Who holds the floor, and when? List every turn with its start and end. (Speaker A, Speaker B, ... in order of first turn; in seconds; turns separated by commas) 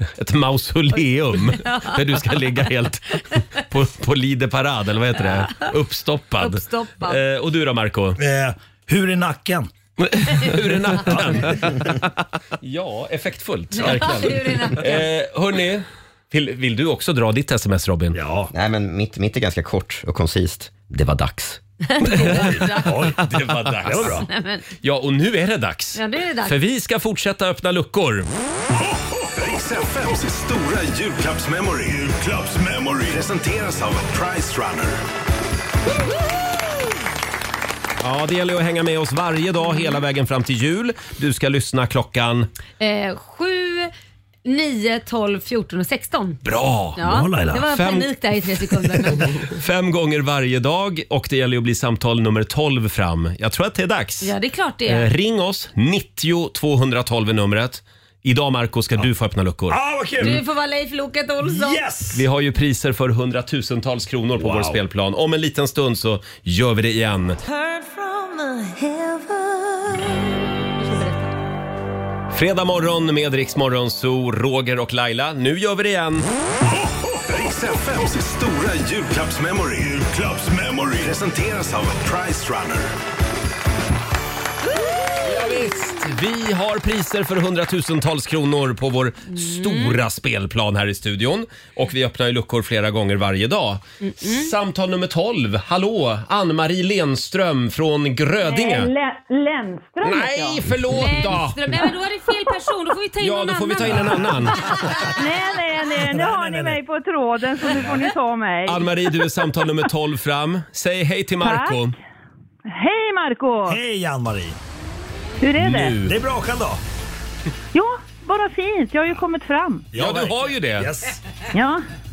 Speaker A: 0.2-8.2, Speaker B: 1.5-2.0, Speaker B: 5.2-5.7, Speaker B: 6.4-7.2, Speaker C: 8.2-9.7, Speaker A: 10.0-12.0, Speaker C: 11.0-11.9, Speaker A: 12.6-18.2, Speaker B: 13.7-15.1, Speaker C: 18.1-18.5, Speaker D: 18.5-21.6, Speaker B: 21.9-23.1, Speaker A: 22.1-24.2, Speaker C: 22.2-24.3, Speaker B: 23.9-24.6, Speaker A: 24.8-28.3, Speaker B: 26.0-26.6, Speaker E: 28.7-35.0, Speaker A: 38.0-42.5, Speaker B: 42.8-43.9, Speaker B: 44.5-46.4, Speaker A: 46.5-47.0, Speaker C: 47.0-47.7, Speaker B: 47.0-49.4, Speaker A: 47.7-48.1, Speaker A: 49.1-54.3, Speaker B: 54.2-55.1, Speaker A: 54.9-59.8, Speaker C: 59.7-60.4, Speaker B: 60.2-61.8, Speaker C: 61.4-62.2, Speaker A: 62.1-67.4, Speaker C: 64.4-64.8, Speaker F: 67.7-70.0, Speaker B: 70.8-71.3, Speaker A: 72.3-76.3, Speaker E: 76.6-82.9, Speaker A: 85.2-98.9, Speaker B: 89.3-90.0, Speaker B: 94.0-94.5, Speaker G: 98.4-100.7, Speaker A: 100.0-101.6, Speaker B: 100.9-105.1, Speaker A: 103.2-104.8, Speaker C: 103.8-105.1, Speaker G: 105.2-108.9, Speaker C: 105.9-106.8, Speaker C: 107.7-108.0, Speaker A: 108.7-112.0, Speaker G: 111.4-111.8, Speaker G: 112.7-113.8, Speaker C: 113.7-114.6, Speaker G: 115.4-116.0, Speaker A: 115.6-116.1, Speaker C: 116.0-116.8, Speaker G: 117.7-119.9, Speaker C: 119.9-121.2, Speaker A: 120.0-120.9, Speaker G: 121.5-121.8